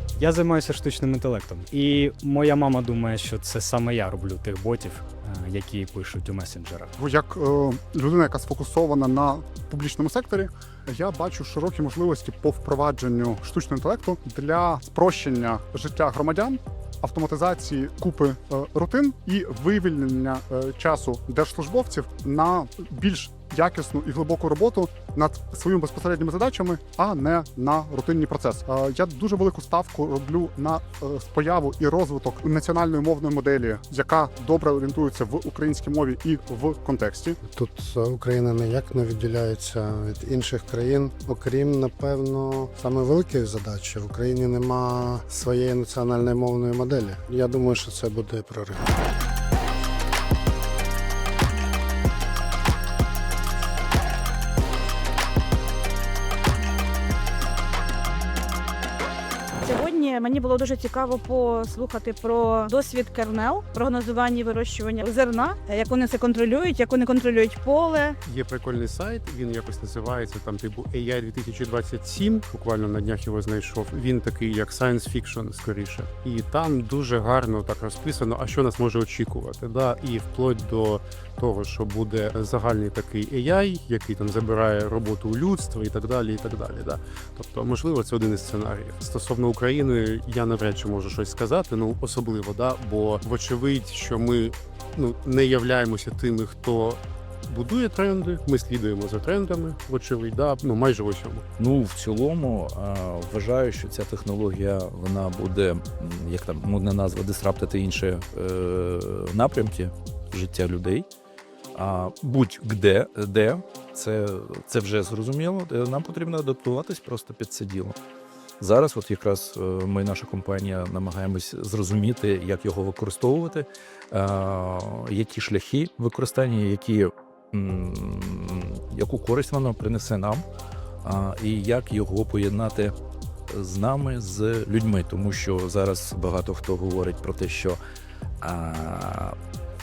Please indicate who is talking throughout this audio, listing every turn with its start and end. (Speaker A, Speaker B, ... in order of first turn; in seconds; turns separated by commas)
Speaker A: 0.2-6.9, Speaker B: 7.0-37.4, Speaker C: 37.5-48.9, Speaker D: 59.6-68.2, Speaker E: 68.2-101.4, Speaker F: 101.6-111.0, Speaker F: 111.7-118.0, Speaker F: 118.6-130.4, Speaker F: 131.0-132.9, Speaker F: 133.5-137.8, Speaker F: 138.4-139.3